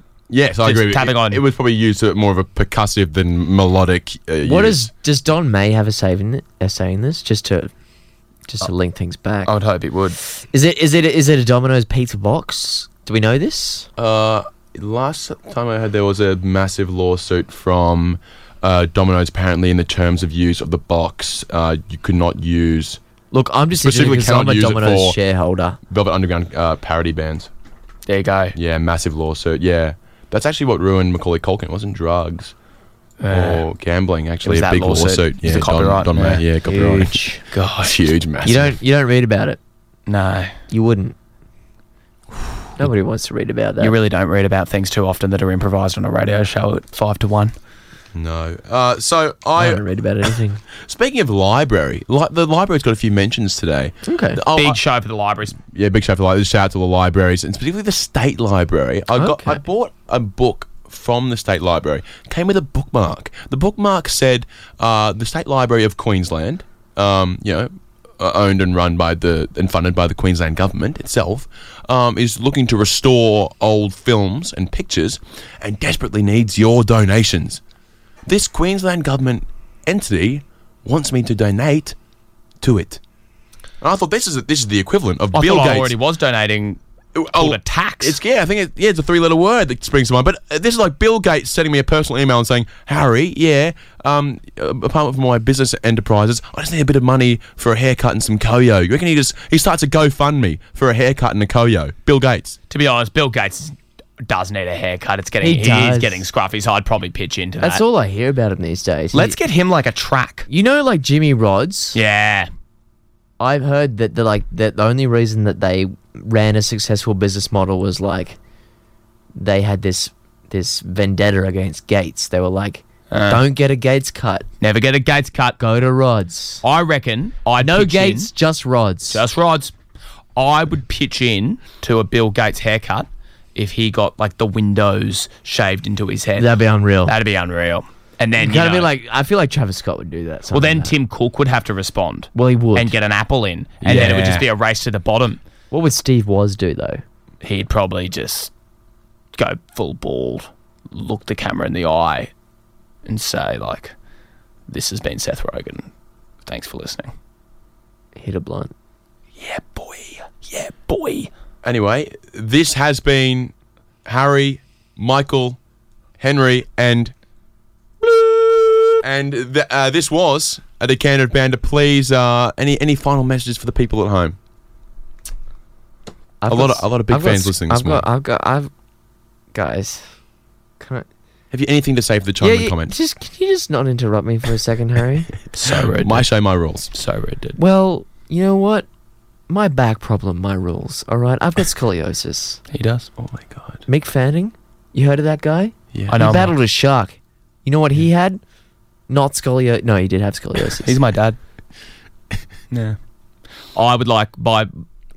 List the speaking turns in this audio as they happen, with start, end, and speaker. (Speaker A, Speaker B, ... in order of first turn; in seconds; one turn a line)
Speaker A: 0.3-4.9
Speaker B: 0.6-1.4
Speaker C: 4.4-7.7
Speaker C: 8.5-9.5
Speaker B: 9.4-10.2
Speaker C: 10.5-13.9
Speaker A: 14.0-23.0
Speaker C: 23.3-25.8
Speaker A: 23.7-25.2
Speaker A: 25.9-27.5
Speaker B: 28.1-28.6
Speaker A: 28.5-32.5
Speaker B: 33.2-33.6
Speaker A: 33.3-37.2
Speaker B: 34.4-36.4
Speaker C: 36.6-37.4
Speaker B: 37.5-38.1
Speaker A: 37.8-38.8
Speaker C: 38.4-39.6
Speaker B: 40.1-40.5
Speaker C: 40.7-41.1
Speaker C: 42.8-43.9
Speaker B: 43.8-47.5
Speaker A: 48.1-49.8
Speaker C: 49.6-50.6
Speaker A: 50.8-54.8
Speaker C: 54.0-54.4
Speaker B: 54.5-55.6
Speaker A: 55.7-77.6
Speaker C: 59.1-59.6
Speaker A: 78.3-82.0
Speaker A: 82.6-83.0
Speaker A: 83.8-85.9
Speaker B: 85.3-86.8
Speaker A: 87.2-102.6
Speaker B: 87.3-88.2
Speaker B: 102.7-107.8
Speaker C: 105.4-106.2
Speaker C: 107.6-109.4
Speaker B: 109.1-110.5
Speaker C: 110.5-112.0
Speaker B: 111.9-112.5
Speaker C: 113.4-118.4
Speaker C: 119.3-124.5
Speaker B: 123.1-123.4
Speaker B: 124.6-125.6
Speaker C: 125.6-126.6
Speaker B: 126.6-128.3
Speaker C: 127.6-129.2
Speaker B: 129.1-129.7
Speaker B: 130.3-136.5
Speaker C: 136.4-137.1
Speaker B: 137.1-138.9
Speaker C: 138.3-140.9
Speaker B: 140.5-145.4
Speaker C: 142.3-142.9
Speaker A: 143.8-144.5
Speaker C: 143.9-144.2
Speaker C: 145.7-147.0
Speaker B: 147.4-148.5
Speaker B: 149.3-152.3
Speaker B: 153.1-153.9
Speaker B: 154.7-155.9
Speaker B: 156.4-157.1
Speaker C: 158.2-158.7
Speaker B: 159.4-161.3
Speaker A: 161.6-163.5
Speaker A: 164.1-165.6
Speaker A: 166.2-167.1
Speaker B: 168.0-168.8
Speaker A: 169.0-174.4
Speaker C: 176.4-178.7
Speaker A: 176.5-178.0
Speaker C: 179.5-180.1
Speaker C: 180.8-181.1
Speaker A: 181.5-182.9
Speaker C: 182.4-185.3
Speaker B: 185.5-186.3
Speaker A: 185.8-186.9
Speaker B: 186.9-187.6
Speaker C: 187.6-188.9
Speaker C: 189.5-192.6
Speaker B: 192.7-193.1
Speaker A: 193.2-193.8
Speaker C: 193.9-198.4
Speaker A: 195.9-196.2
Speaker B: 196.1-196.6
Speaker C: 199.1-201.0
Speaker B: 200.8-201.4
Speaker B: 202.7-203.0
Speaker B: 203.7-204.8